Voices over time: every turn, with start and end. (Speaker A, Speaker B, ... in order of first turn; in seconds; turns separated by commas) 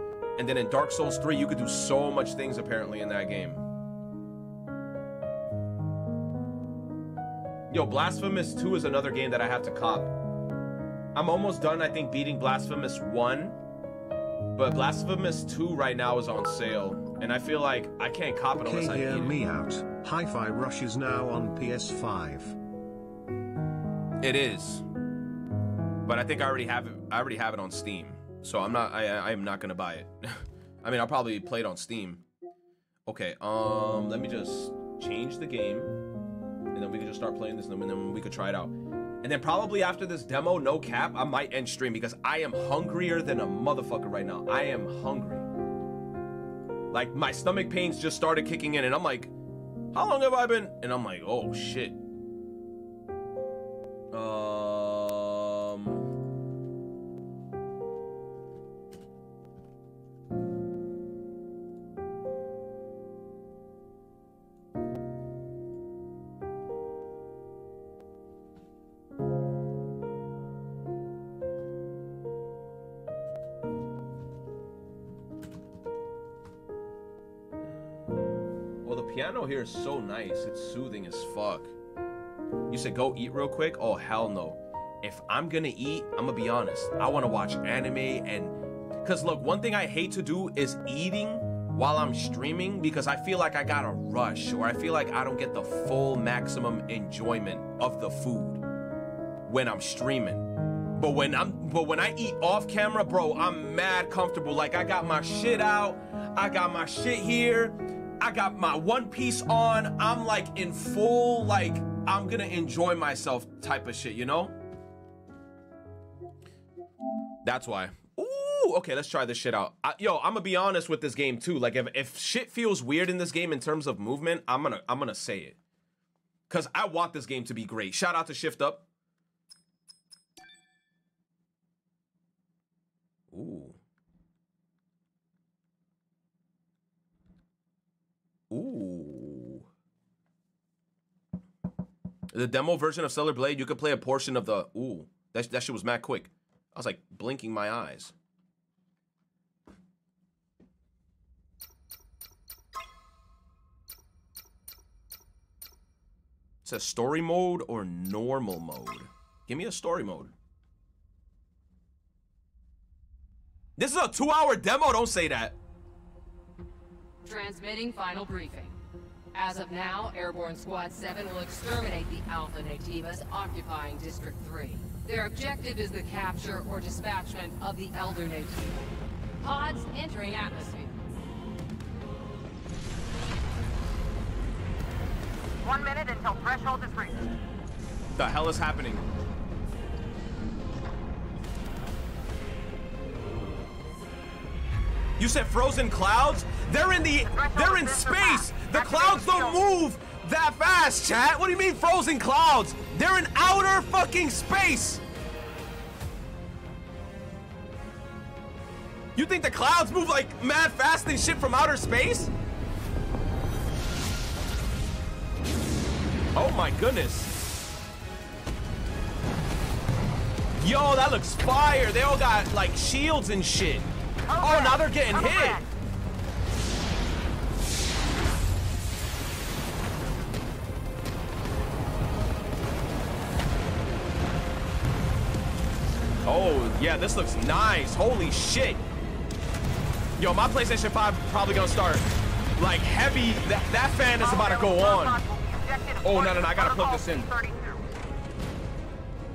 Speaker A: 0.4-3.6, Speaker A: 7.7-10.1, Speaker A: 11.2-13.6, Speaker A: 14.6-19.4, Speaker B: 18.6-22.6, Speaker A: 24.2-24.9, Speaker A: 26.0-32.2, Speaker A: 33.1-36.0, Speaker A: 36.7-45.5, Speaker A: 46.9-49.3, Speaker A: 49.9-52.0, Speaker A: 54.1-56.0, Speaker A: 78.8-81.7, Speaker A: 82.7-98.6, Speaker A: 99.5-114.5, Speaker A: 117.4-125.6, Speaker A: 126.5-128.9, Speaker A: 133.3-133.8, Speaker A: 138.5-139.7, Speaker A: 142.3-148.1, Speaker A: 156.7-160.3, Speaker A: 163.8-165.6, Speaker C: 167.2-168.7, Speaker C: 169.3-178.7, Speaker C: 179.4-181.0, Speaker D: 185.6-187.2, Speaker A: 188.2-189.1, Speaker A: 195.2-205.0, Speaker D: 197.2-199.6, Speaker A: 209.2-212.3, Speaker A: 216.3-217.3, Speaker A: 220.6-223.9, Speaker D: 224.3-225.7, Speaker A: 224.4-225.6, Speaker A: 236.2-238.8, Speaker A: 240.2-245.2, Speaker D: 244.2-247.8, Speaker A: 246.0-247.3